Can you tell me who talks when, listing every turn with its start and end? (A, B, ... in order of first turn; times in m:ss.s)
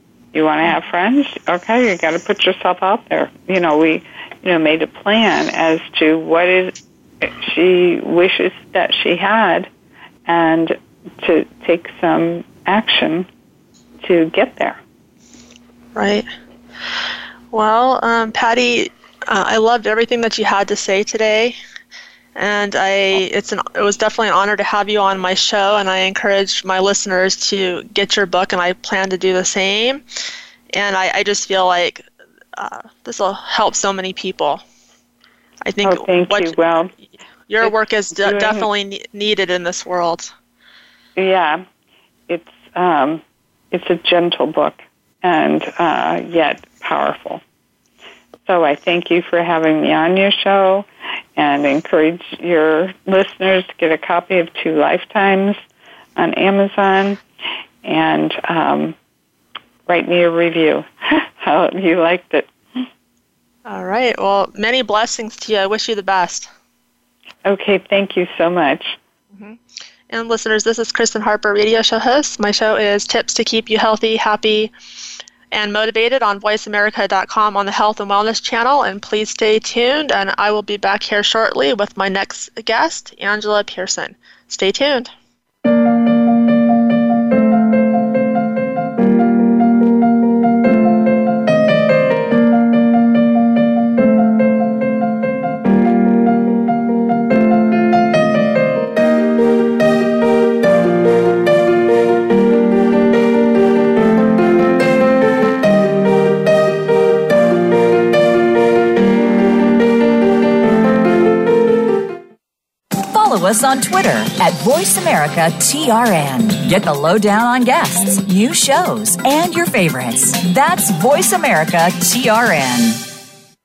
0:00.3-0:09.7 A
0:10.3-0:13.3 A
0:14.0-0:14.8 A
0:16.0-0:16.3 B
0:17.5-0:21.6 B
0:22.4-0:30.0 B
0:30.7-0:32.0 B
0:32.6-0:34.6 B
0:35.6-0:36.6 B
0:35.8-0:36.9 A
0:37.5-0:40.3 B
0:37.6-0:38.7 A
0:41.2-0:41.6 A
0:42.3-0:47.4 A
0:48.5-0:55.6 A
0:56.2-0:57.2 A
0:57.8-0:59.0 A
0:59.9-1:02.9 A
1:03.7-1:06.5 B
1:07.4-1:09.0 A
1:10.1-1:14.7 B
1:15.5-1:25.1 B
1:53.0-2:03.1 C